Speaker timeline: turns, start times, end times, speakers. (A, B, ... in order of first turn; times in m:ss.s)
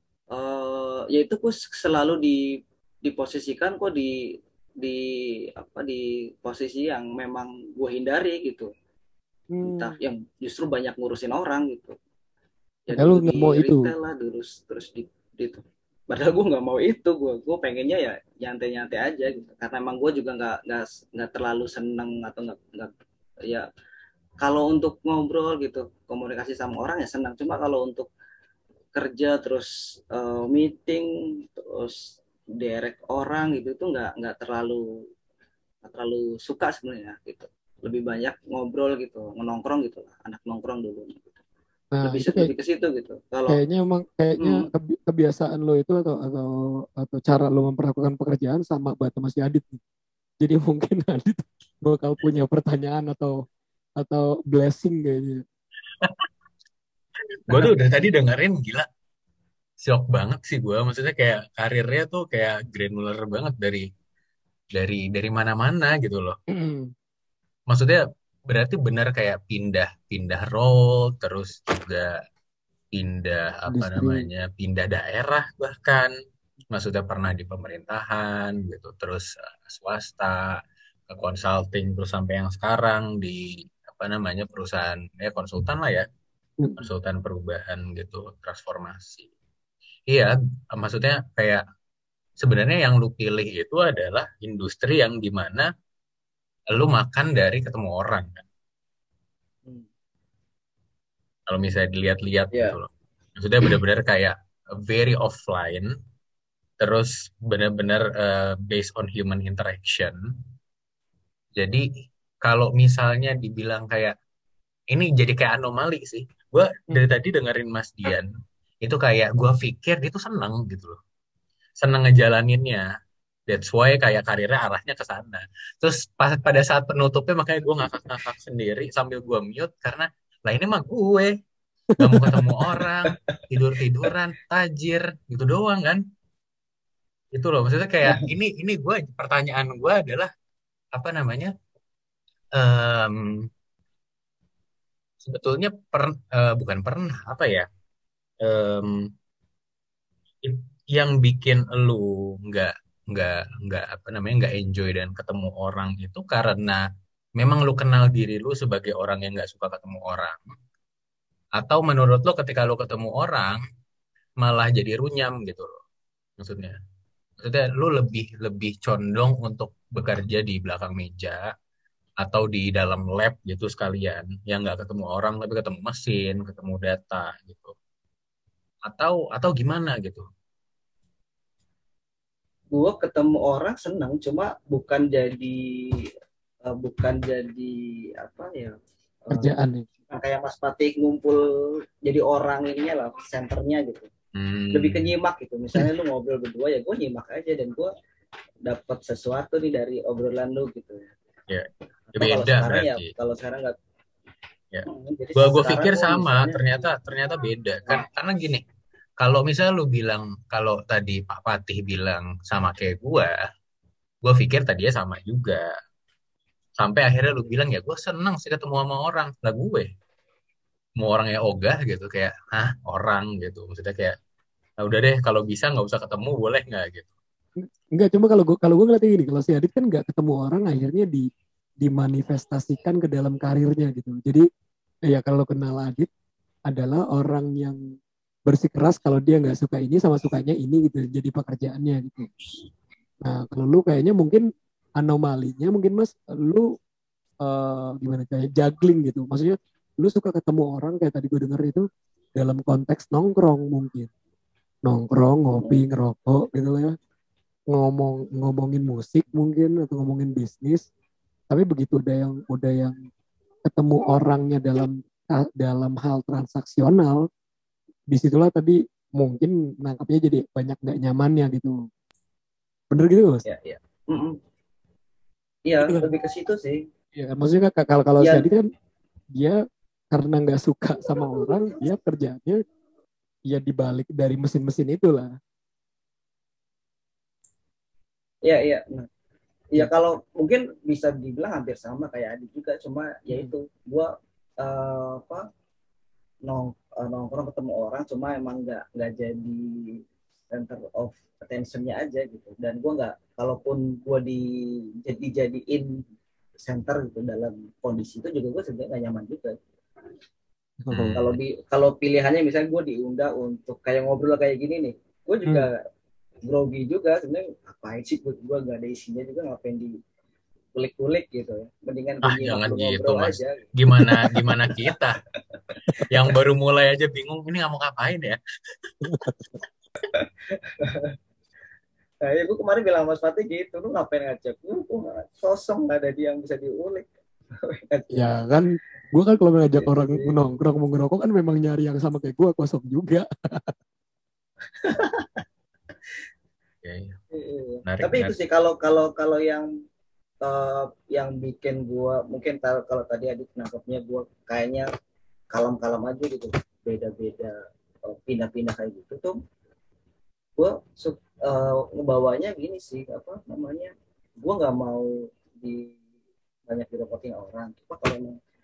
0:00.3-0:04.2 A
0:04.8-0:08.7 A
0:09.5-0:10.0 B
0:09.6-0:12.0 A
0:12.8-0:22.9 A
0:12.9-0:13.9 B
0:24.4-0:28.1 A
0:28.9-0:35.0 A
0:35.8-0:41.4 A
0:41.9-0:42.5 B
0:42.0-0:43.6 A
0:43.5-0:49.8 B
0:44.4-0:44.7 A
0:50.4-0:53.4 B
0:54.0-0:55.4 B
0:56.0-0:56.2 C
0:57.5-0:58.9 C
0:57.5-0:57.8 A
0:59.8-1:03.9 C
1:04.7-1:06.4 C
1:06.5-1:06.9 B
1:07.7-1:12.2 C
1:12.9-1:16.1 C
1:13.7-1:14.2 B
1:16.7-1:26.0 C
1:26.6-1:26.9 B
1:26.8-1:29.3 C
1:30.1-1:31.6 C
1:32.4-1:35.7 C
1:36.7-1:38.4 C
1:41.5-1:45.9 C
1:42.5-1:42.8 A
1:46.8-1:50.3 C
1:51.6-1:51.8 C
1:52.4-1:54.1 C
1:54.9-1:58.3 C
1:58.8-2:01.0 C
2:01.8-2:02.9 C
2:03.5-2:11.3 C
2:12.0-2:12.5 B
2:12.0-2:16.0 C
2:13.0-2:14.1 A
2:17.3-2:20.3 C
2:20.9-2:21.5 C
2:22.6-2:23.5 C
2:25.2-2:27.7 C
2:28.4-2:29.1 C
2:30.4-2:36.8 C
2:37.4-2:40.5 C
2:41.6-2:43.6 C
2:44.4-2:45.8 C
2:46.4-2:46.8 C
2:47.4-2:51.5 C
2:52.2-2:57.7 C
2:58.8-3:00.2 C
3:02.7-3:06.1 A
3:06.6-3:09.5 A
3:09.3-3:09.8 B
3:10.1-3:14.1 A
3:14.3-3:15.1 C
3:14.7-3:17.9 A
3:18.6-3:21.1 A
3:21.5-3:23.1 C
3:22.1-3:23.7 A
3:24.7-3:28.6 C
3:24.8-3:27.0 A
3:29.2-3:33.4 C
3:34.2-3:35.7 C
3:36.8-3:39.9 C
3:41.0-3:44.2 C
3:44.8-3:47.1 C
3:47.9-3:51.3 B
3:51.8-3:54.4 B
3:55.1-3:56.1 B
3:56.7-3:57.8 B
3:58.4-4:02.3 B
4:03.2-4:04.4 B
4:05.0-4:06.7 B
4:07.4-4:14.1 B
4:14.8-4:16.9 B
4:15.6-4:15.8 A
4:17.7-4:20.9 B
4:21.5-4:23.1 B
4:23.6-4:27.3 B
4:28.1-4:31.8 B
4:32.9-4:33.4 B
4:33.4-4:34.4 A
4:35.7-4:36.8 A
4:35.8-4:36.1 B
4:37.1-4:38.6 B
4:38.2-4:38.5 A
4:39.3-4:39.6 B
4:40.1-4:42.6 B
4:43.5-4:45.3 B
4:48.4-4:49.1 A
4:49.7-4:55.4 A
4:56.4-5:00.0 A
5:00.5-5:04.5 A
5:05.0-5:06.0 A
5:06.6-5:09.6 A
5:10.8-5:11.2 B
5:10.9-5:11.4 C
5:11.1-5:15.8 A
5:16.4-5:19.9 A
5:20.7-5:24.7 A
5:22.2-5:25.2 C
5:26.1-5:29.2 C
5:29.1-5:29.5 B
5:30.1-5:31.1 A
5:32.2-5:37.1 A
5:37.6-5:38.4 A
5:38.1-5:43.7 B
5:39.6-5:40.4 A
5:44.8-5:45.4 A
5:46.8-5:47.2 C
5:47.3-5:49.7 A
5:47.8-5:48.3 C
5:50.4-5:54.9 A
5:55.5-5:59.4 A
6:00.6-6:06.0 A
6:06.7-6:08.4 A